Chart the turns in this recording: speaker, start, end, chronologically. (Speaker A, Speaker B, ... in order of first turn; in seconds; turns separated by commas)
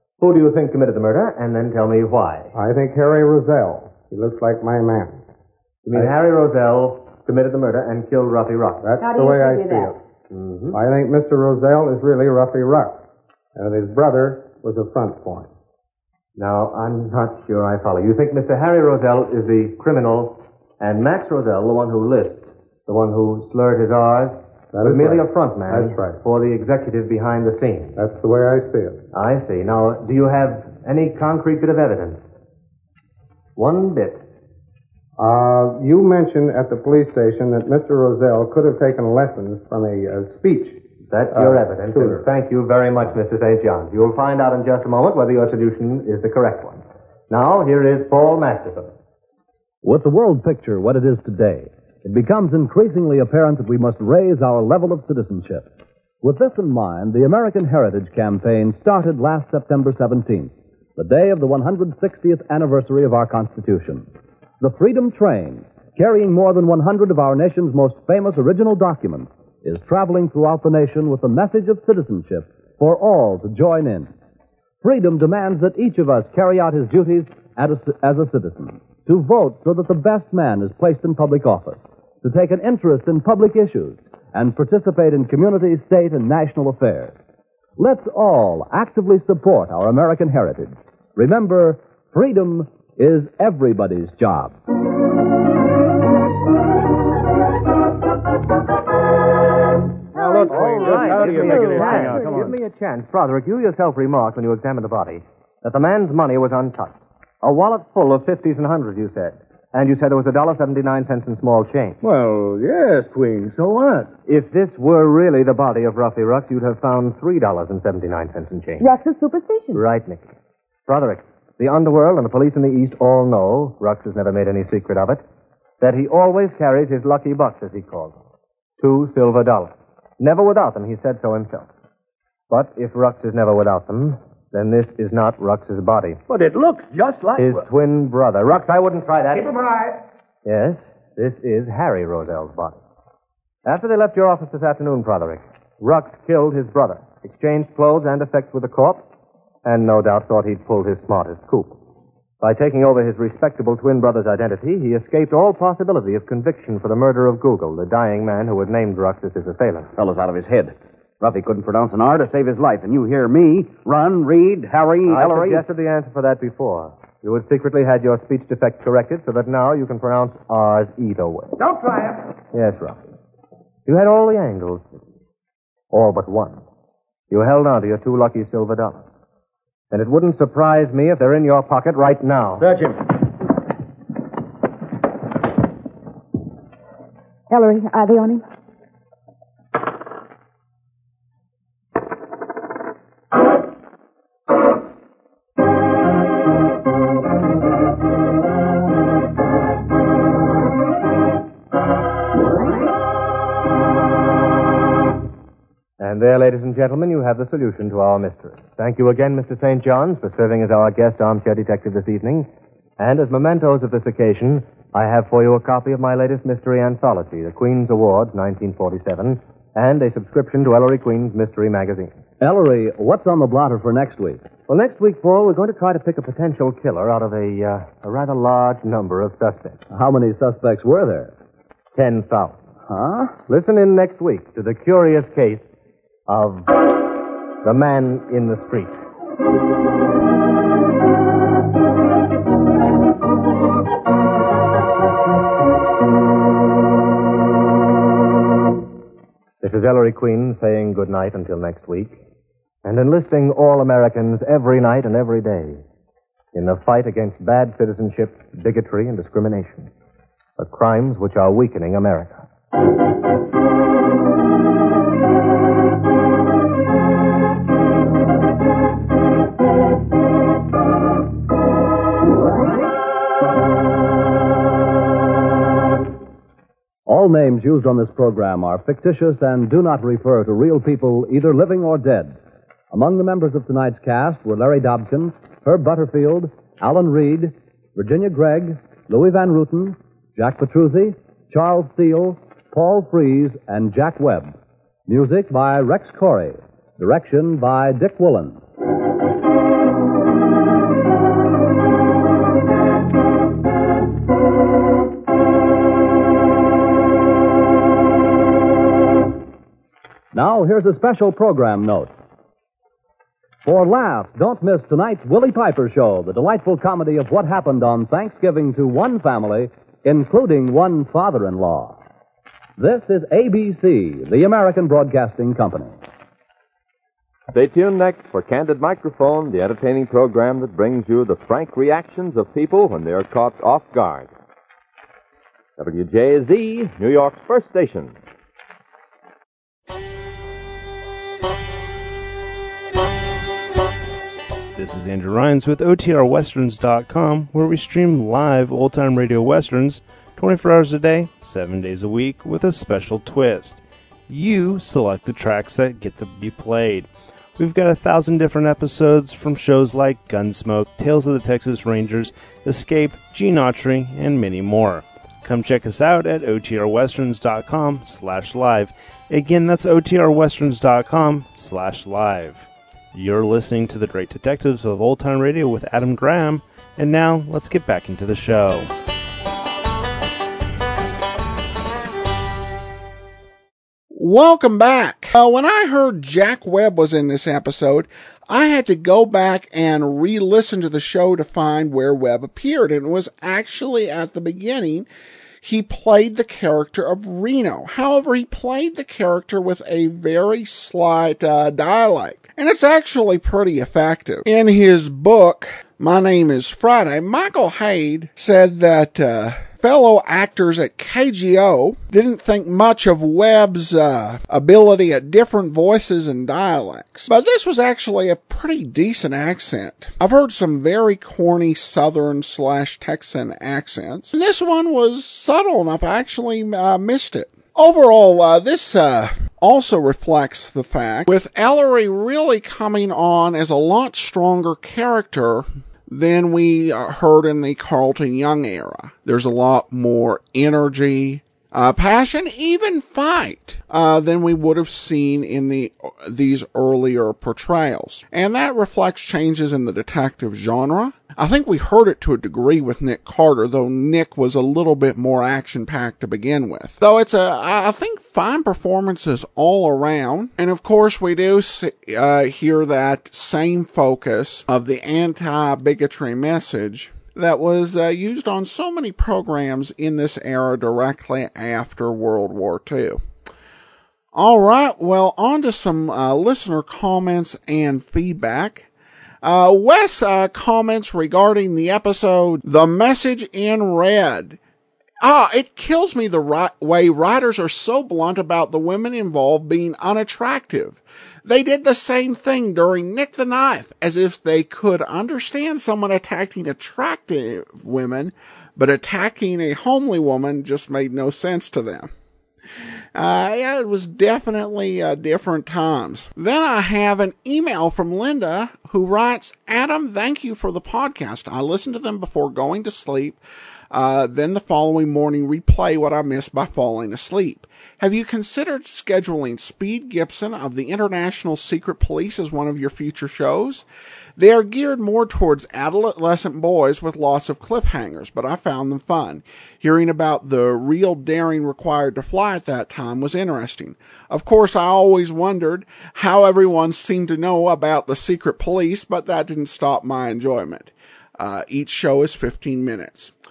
Speaker A: 0.2-2.5, Speaker B: 2.5-5.2, Speaker A: 5.8-8.8, Speaker B: 8.8-10.0, Speaker C: 9.0-9.9, Speaker A: 10.3-10.8, Speaker B: 10.7-13.0, Speaker B: 13.6-15.5, Speaker A: 16.4-28.0, Speaker B: 24.7-26.2, Speaker B: 27.9-29.0, Speaker A: 29.1-32.3, Speaker A: 33.5-34.2, Speaker B: 35.2-40.8, Speaker A: 41.0-48.9, Speaker B: 41.3-42.2, Speaker D: 49.8-55.7, Speaker D: 56.2-64.1, Speaker D: 64.6-74.1, Speaker D: 74.8-87.1, Speaker D: 87.8-94.5, Speaker E: 100.1-102.5, Speaker C: 100.2-102.3, Speaker A: 100.5-112.0, Speaker E: 112.0-114.1, Speaker A: 114.3-118.9, Speaker C: 118.8-119.8, Speaker A: 119.7-120.3, Speaker A: 120.9-125.2, Speaker A: 125.8-128.2, Speaker A: 128.8-131.7, Speaker A: 132.5-136.2, Speaker E: 136.3-137.7, Speaker A: 137.4-139.5, Speaker A: 140.4-142.8, Speaker A: 143.6-149.1, Speaker A: 149.6-151.8, Speaker A: 152.4-159.9, Speaker F: 159.9-165.6, Speaker A: 165.1-171.6, Speaker A: 172.5-173.0, Speaker A: 173.8-175.0, Speaker A: 175.9-176.6, Speaker A: 177.3-179.0, Speaker A: 179.9-182.7, Speaker E: 182.6-183.0, Speaker C: 187.5-188.4, Speaker A: 206.0-212.5, Speaker A: 213.0-222.2, Speaker D: 222.4-224.4, Speaker A: 224.7-229.8, Speaker D: 229.9-231.3, Speaker A: 231.9-232.6, Speaker D: 232.9-233.3, Speaker A: 233.5-235.7, Speaker A: 236.3-236.8, Speaker A: 237.6-239.0, Speaker A: 249.6-252.2, Speaker A: 252.8-255.8, Speaker A: 256.5-259.9, Speaker A: 260.6-262.4, Speaker D: 277.1-282.4, Speaker D: 282.9-294.5, Speaker D: 295.1-298.6, Speaker D: 310.3-312.1, Speaker D: 313.6-322.0, Speaker D: 322.8-326.0, Speaker G: 327.5-334.3, Speaker G: 335.8-338.1, Speaker H: 344.7-353.8, Speaker H: 354.3-378.9, Speaker I: 384.1-395.1, Speaker I: 395.6-473.2, Speaker I: 474.3-478.9, Speaker I: 479.4-484.6, Speaker I: 485.2-502.1, Speaker I: 503.1-513.4, Speaker I: 513.9-523.8, Speaker I: 524.4-543.3